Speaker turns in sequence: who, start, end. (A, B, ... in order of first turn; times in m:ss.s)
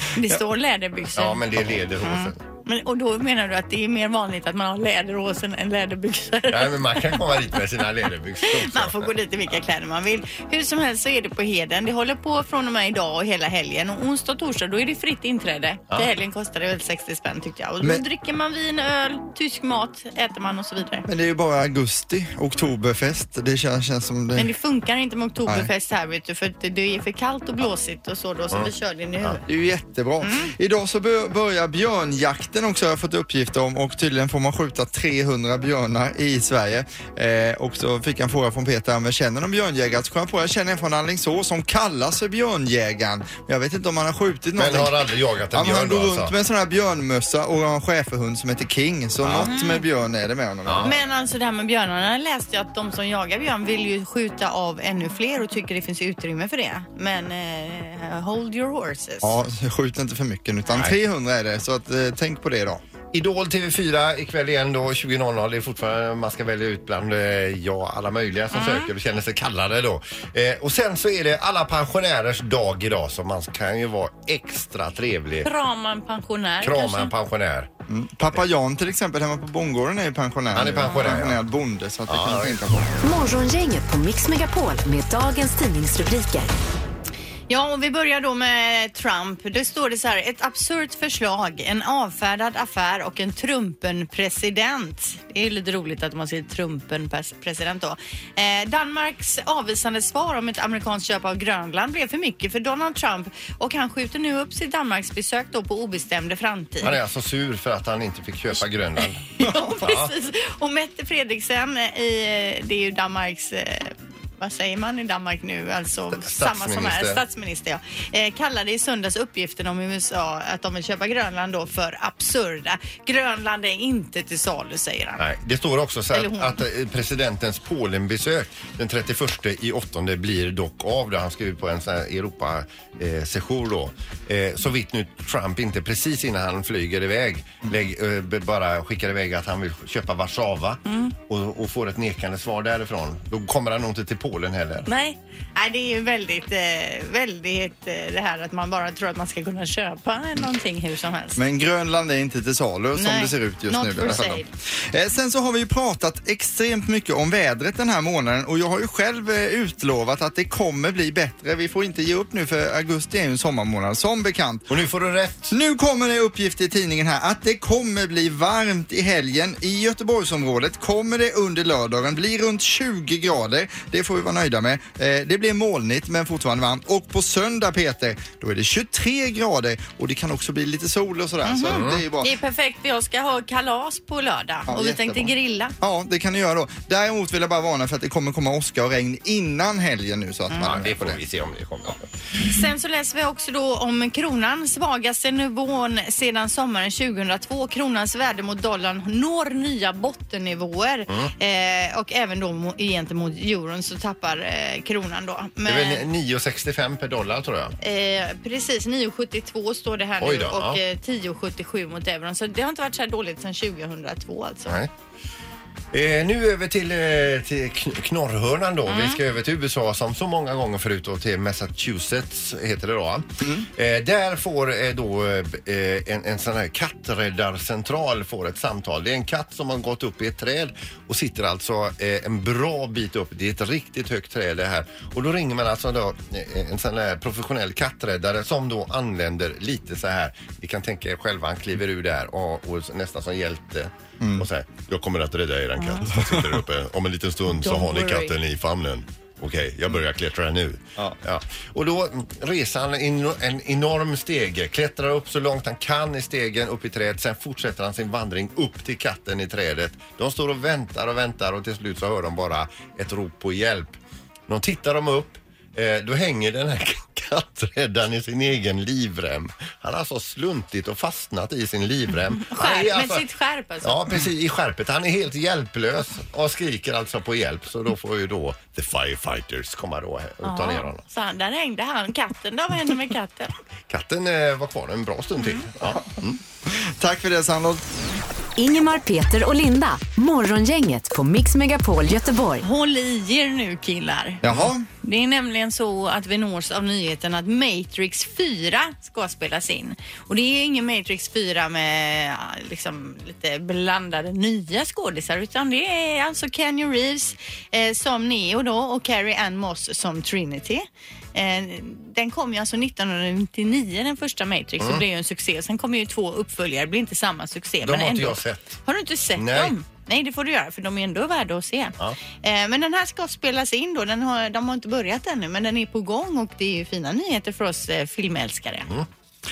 0:00.1-0:01.4 A
0:01.2-0:02.4 B
0:02.0-0:07.2 A
0:06.5-0:09.1 B
0:08.4-0:21.0 A
0:21.1-0:24.5 C
0:24.4-0:29.4 A
0:29.4-0:45.0 C
0:30.2-0:30.5 A
0:44.6-0:46.3 B
0:45.5-0:50.9 C
0:49.2-0:49.5 B
0:49.4-0:49.8 A
0:50.6-0:50.9 B
0:50.8-0:59.3 A
0:59.2-1:02.8 C
1:03.1-1:15.5 B
1:08.5-1:08.9 A
1:15.4-1:17.1 A
1:16.6-1:17.7 B
1:17.9-1:22.9 C
1:20.5-1:21.4 B
1:22.1-1:22.6 B
1:23.0-1:26.5 D
1:27.5-1:47.0 A
1:46.8-1:50.1 B
1:49.4-2:05.2 A
1:56.1-1:57.2 B
2:05.2-2:24.9 B
2:06.1-2:06.6 A
2:20.9-2:21.1 A
2:24.8-2:31.4 A
2:31.4-2:44.7 C
2:33.0-2:34.5 A
2:44.7-2:45.5 B
2:45.5-3:02.3 C
3:01.4-3:05.7 A
3:01.7-3:02.0 B
3:04.7-3:11.2 C
3:10.6-3:12.0 B
3:12.4-3:26.1 A
3:25.6-3:27.8 B
3:27.8-3:34.8 A
3:30.2-3:30.8 B
3:35.9-4:24.0 B
3:38.9-3:39.2 A
4:04.2-4:04.5 C
4:06.2-4:06.5 C
4:07.6-4:08.3 A
4:24.5-4:33.2 B
4:32.5-4:34.0 A
4:33.8-4:41.0 B
4:40.4-4:43.5 A
4:43.9-4:46.4 B
4:46.7-4:47.8 C
4:48.6-4:52.6 D
4:52.6-4:54.4 A
4:54.4-4:54.8 C
4:55.0-5:28.9 A
5:17.8-5:18.7 B
5:19.4-5:19.7 B